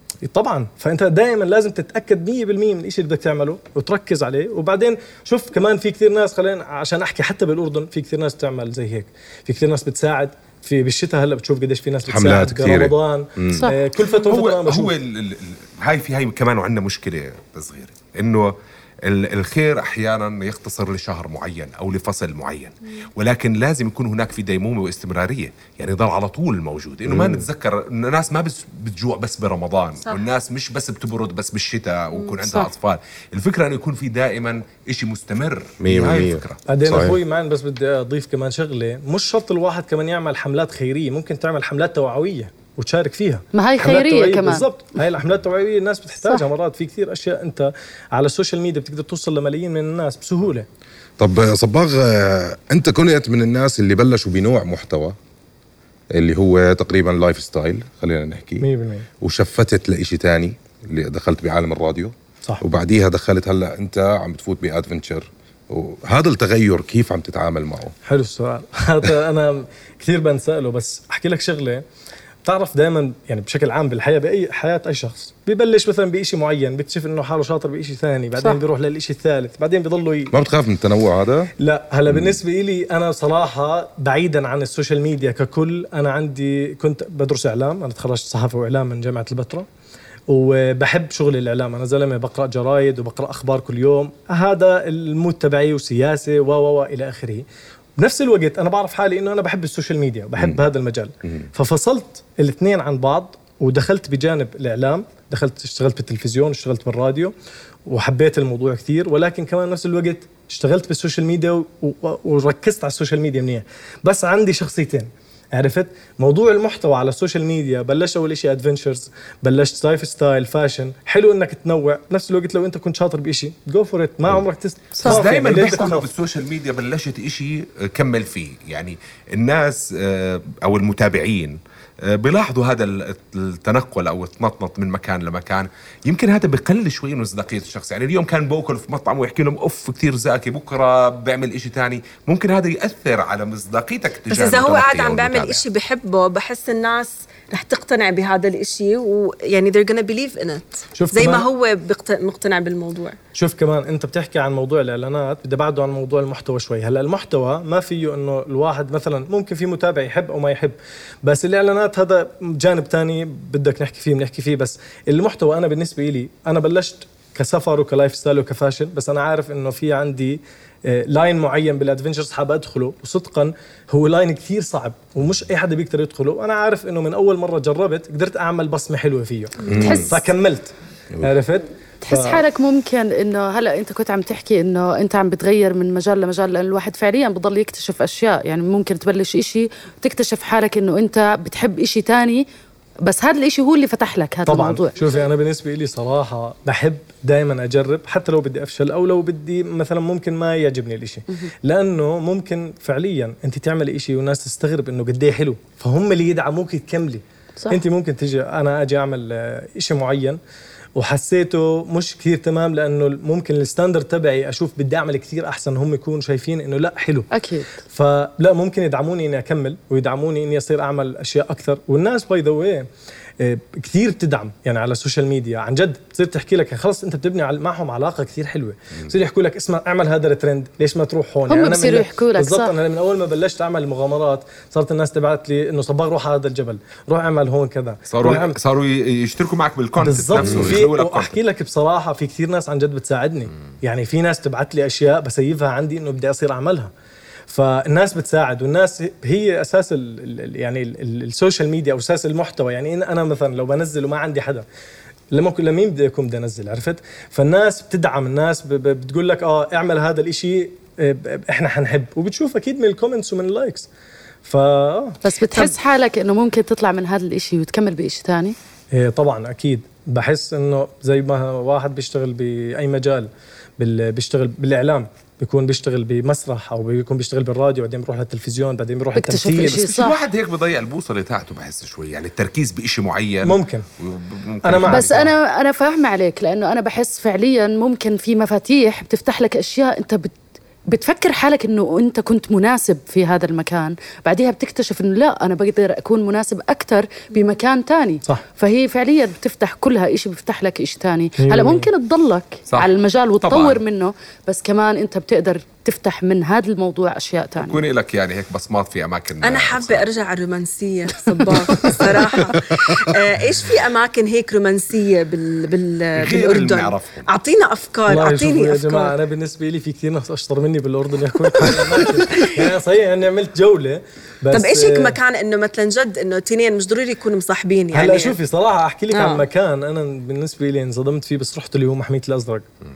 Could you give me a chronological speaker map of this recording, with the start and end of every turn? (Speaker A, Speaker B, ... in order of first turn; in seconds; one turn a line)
Speaker A: 0.2-14.9
Speaker B: 12.1-13.7
Speaker C: 13.5-13.8
Speaker D: 14.1-36.6
Speaker B: 27.1-27.5
Speaker B: 35.8-37.2
Speaker A: 36.7-50.7
Speaker C: 43.5-44.7
Speaker B: 51.2-55.2
Speaker B: 56.1-58.7
Speaker A: 58.6-59.1
Speaker B: 59.2-68.0
Speaker A: 68.0-71.8
Speaker A: 72.4-80.3
Speaker B: 80.3-81.5
Speaker A: 81.6-89.7
Speaker B: 82.1-82.4
Speaker A: 90.3-97.5
Speaker A: 98.0-107.3
Speaker B: 100.4-100.7
Speaker A: 107.9-126.1
Speaker C: 125.0-125.8
Speaker D: 125.0-145.6
Speaker E: 144.3-153.2
Speaker A: 150.9-151.5
Speaker A: 153.3-182.4
Speaker B: 179.6-180.1
Speaker C: 179.7-180.2
Speaker C: 182.0-192.5
Speaker C: 193.1-194.9
Speaker A: 194.5-210.4
Speaker A: 211.0-217.3
Speaker C: 217.3-217.7
Speaker A: 217.8-222.9
Speaker A: 223.4-238.6
Speaker C: 231.5-232.7
Speaker D: 238.1-241.4
Speaker A: 240.0-246.9
Speaker B: 240.4-240.8
Speaker A: 247.5-254.7
Speaker A: 255.3-263.9
Speaker A: 264.4-265.8
Speaker C: 265.2-268.6
Speaker A: 268.9-279.9
Speaker C: 279.1-280.1
Speaker D: 279.8-285.3
Speaker A: 283.4-283.9
Speaker A: 284.6-285.3
Speaker C: 284.9-290.4
Speaker C: 290.9-307.8
Speaker A: 301.4-301.9
Speaker D: 303.4-303.8
Speaker D: 307.6-310.1
Speaker E: 309.4-319.1
Speaker C: 311.2-311.9
Speaker D: 316.1-317.3
Speaker A: 318.1-325.1
Speaker E: 321.6-322.6
Speaker E: 324.5-328.4
Speaker A: 327.9-332.6
Speaker E: 329.1-329.4